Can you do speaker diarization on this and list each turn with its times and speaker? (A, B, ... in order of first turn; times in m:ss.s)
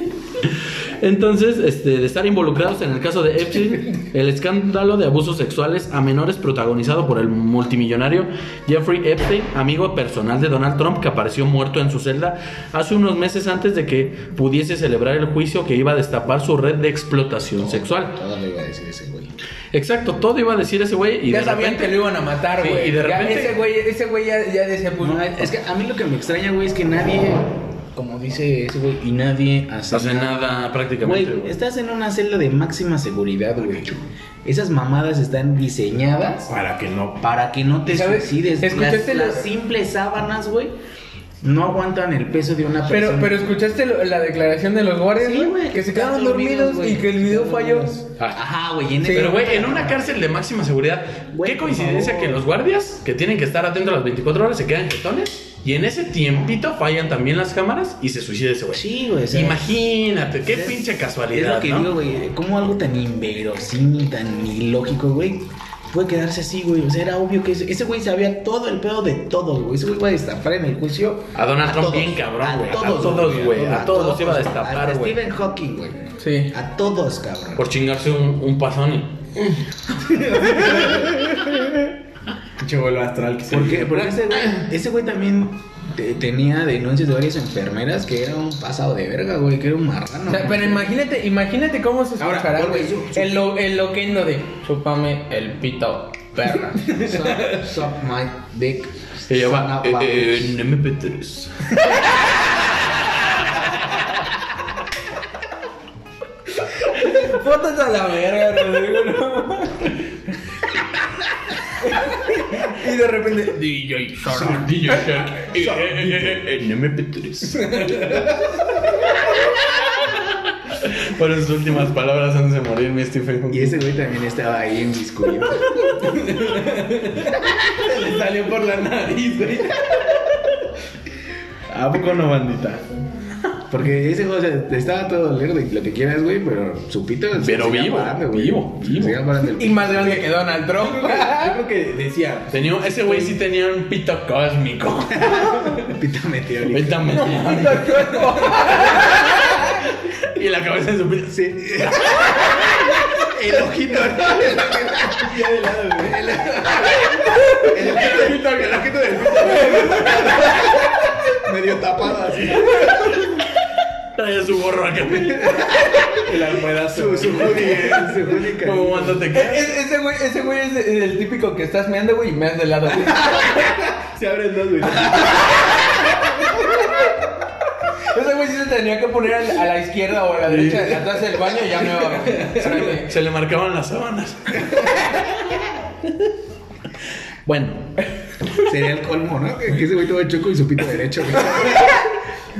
0:00.4-0:18.2 A
0:17.6-0:19.3 B
0:19.7-0:22.0 A
0:21.3-0:25.4 C
0:22.5-0:23.6 A
0:25.0-0:36.5 B
0:29.9-0:31.6 A
0:36.5-0:37.3 D
0:37.2-0:40.7 B
0:37.9-0:39.5 C
0:41.4-0:43.6 B
0:42.9-0:48.0 C
0:45.2-0:50.0 B
0:49.0-0:49.3 C
0:49.1-1:01.9 A
0:51.3-0:52.4 B
0:58.7-0:59.8 B
1:00.5-1:17.7 B
1:11.3-1:15.2 A
1:16.2-1:16.5 C
1:17.6-1:19.1 A
1:20.0-1:21.3 D
1:20.6-1:21.0 B
1:22.6-1:24.3 D
1:23.5-1:30.9 B
1:30.3-1:36.9 C
1:32.2-1:33.4 B
1:36.8-1:40.6 B
1:36.8-1:37.5 D
1:39.3-1:41.8 A
1:47.0-1:50.0 C
1:51.8-1:55.0 C
1:54.2-1:57.8 A
1:54.3-1:55.0 D
1:55.6-1:56.4 D
1:57.7-1:58.3 D
2:00.7-2:03.8 A
2:03.5-2:05.9 B
2:06.0-2:10.2 D
2:11.7-2:12.8 A
2:13.7-2:20.2 B
2:17.4-2:19.2 A
2:19.6-2:21.6 C
2:20.7-2:23.4 D
2:22.5-2:25.8 A
2:25.2-2:27.7 B
2:26.7-2:32.7 A
2:27.1-2:29.7 C
2:31.3-2:43.2 B
2:34.2-2:34.5 D
2:35.2-2:36.9 D
2:37.8-2:39.0 A
2:37.9-2:38.5 D
2:39.4-2:40.6 D
2:42.3-2:43.5 A
2:44.2-2:46.0 A
2:45.2-2:46.3 B
2:46.2-2:48.3 D
2:46.8-2:49.3 B
2:48.4-2:49.8 A
2:49.3-2:53.5 C
2:53.3-2:55.6 D
2:58.1-3:03.1 C
3:00.6-3:01.0 A
3:02.0-3:02.9 D
3:02.6-3:05.3 A
3:07.5-3:08.1 A
3:08.6-3:12.1 B